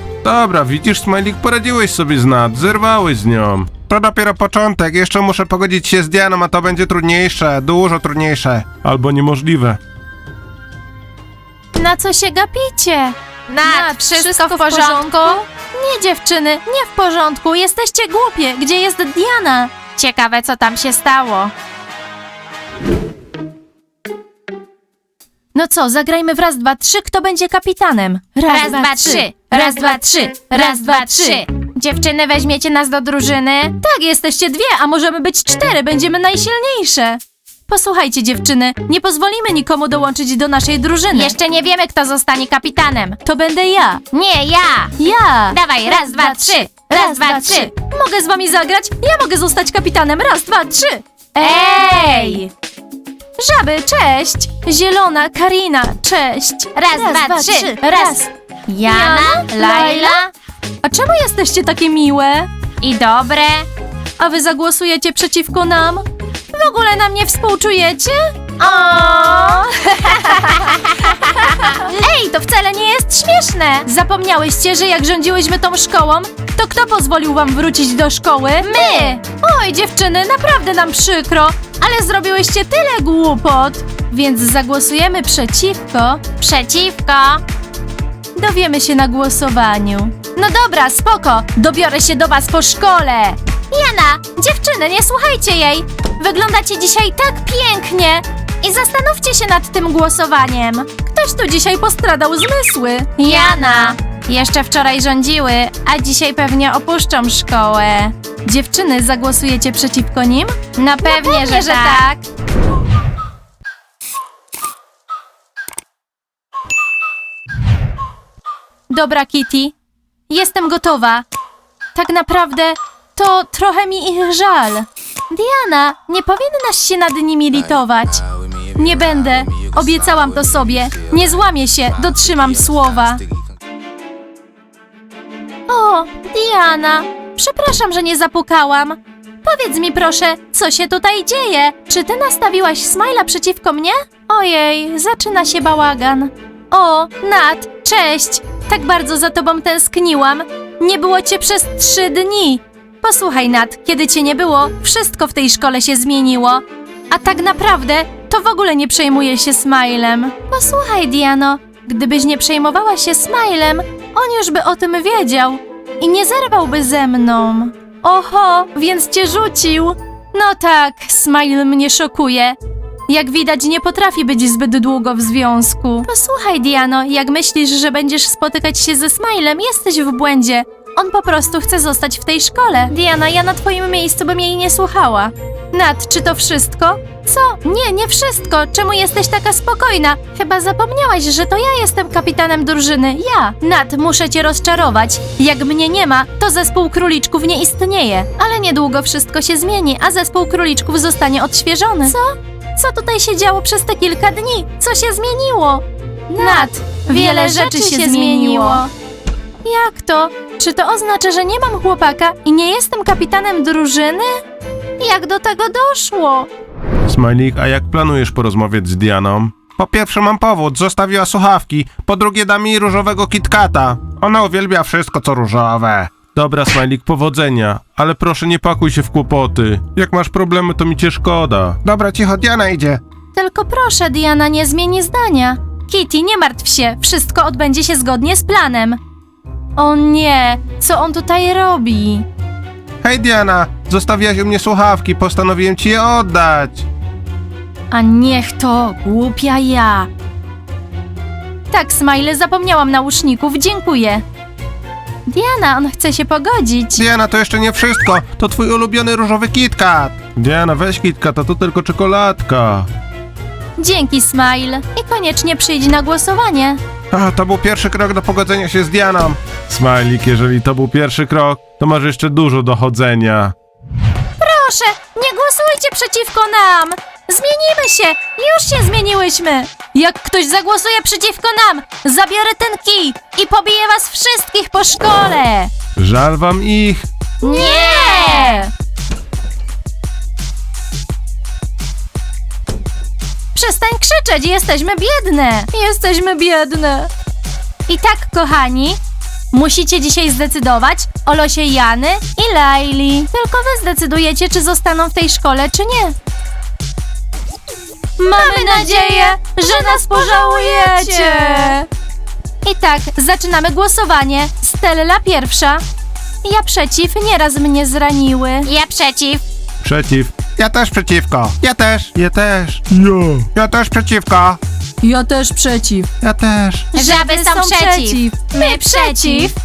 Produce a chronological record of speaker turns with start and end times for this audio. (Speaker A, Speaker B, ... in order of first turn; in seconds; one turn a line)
Speaker A: 0.2-3.8
Speaker B: 3.9-8.7
Speaker A: 8.8-9.8
Speaker C: 11.7-19.7
Speaker D: 13.5-15.4
Speaker D: 20.0-21.5
Speaker C: 25.5-41.3
Speaker D: 28.5-31.7
Speaker D: 41.1-43.2
Speaker C: 43.2-44.0
Speaker D: 44.1-45.0
Speaker C: 45.0-52.4
Speaker D: 45.5-47.7
Speaker D: 51.4-52.5
Speaker C: 53.4-58.3
Speaker D: 56.8-60.3
Speaker C: 58.8-60.2
Speaker C: 60.8-62.5
Speaker D: 62.8-63.7
Speaker C: 64.2-86.4
Speaker D: 68.6-72.1
Speaker D: 78.6-79.2
Speaker D: 86.4-87.4
Speaker C: 88.3-112.2
Speaker D: 103.2-104.0
Speaker D: 111.0-112.1
Speaker C: 118.9-119.8
Speaker C: 120.3-121.2
Speaker C: 122.0-133.2
Speaker C: 135.7-172.6
Speaker C: 173.1-202.2
Speaker D: 202.1-202.4
Speaker C: 202.8-208.9
Speaker D: 206.3-208.9
Speaker C: 209.6-214.4
Speaker C: 215.0-216.5
Speaker A: 217.1-219.7
Speaker B: 219.7-226.1
Speaker A: 226.2-231.8
Speaker B: 231.8-233.0
Speaker C: 233.3-239.0
Speaker C: 239.8-242.3
Speaker B: 243.0-246.8
Speaker C: 247.9-250.1
Speaker C: 251.7-254.2
Speaker C: 255.3-257.1
Speaker B: 257.0-260.2
Speaker A: 260.3-262.9
Speaker C: 263.8-266.8
Speaker B: 267.1-269.4
Speaker A: 269.7-273.5
Speaker C: 274.4-285.7
Speaker A: 286.0-287.1
Speaker C: 287.4-288.7
Speaker D: 287.4-288.7
Speaker C: 293.6-297.1
Speaker C: 297.9-299.0
Speaker C: 299.5-306.1
Speaker C: 308.2-311.9
Speaker D: 308.3-311.8
Speaker C: 312.6-315.8
Speaker C: 316.4-318.7
Speaker D: 318.6-319.4
Speaker A: 319.8-320.4
Speaker B: 320.5-322.8
Speaker B: 323.5-324.6
Speaker C: 325.0-326.1
Speaker B: 326.2-326.9
Speaker D: 326.9-329.6
Speaker C: 326.9-329.5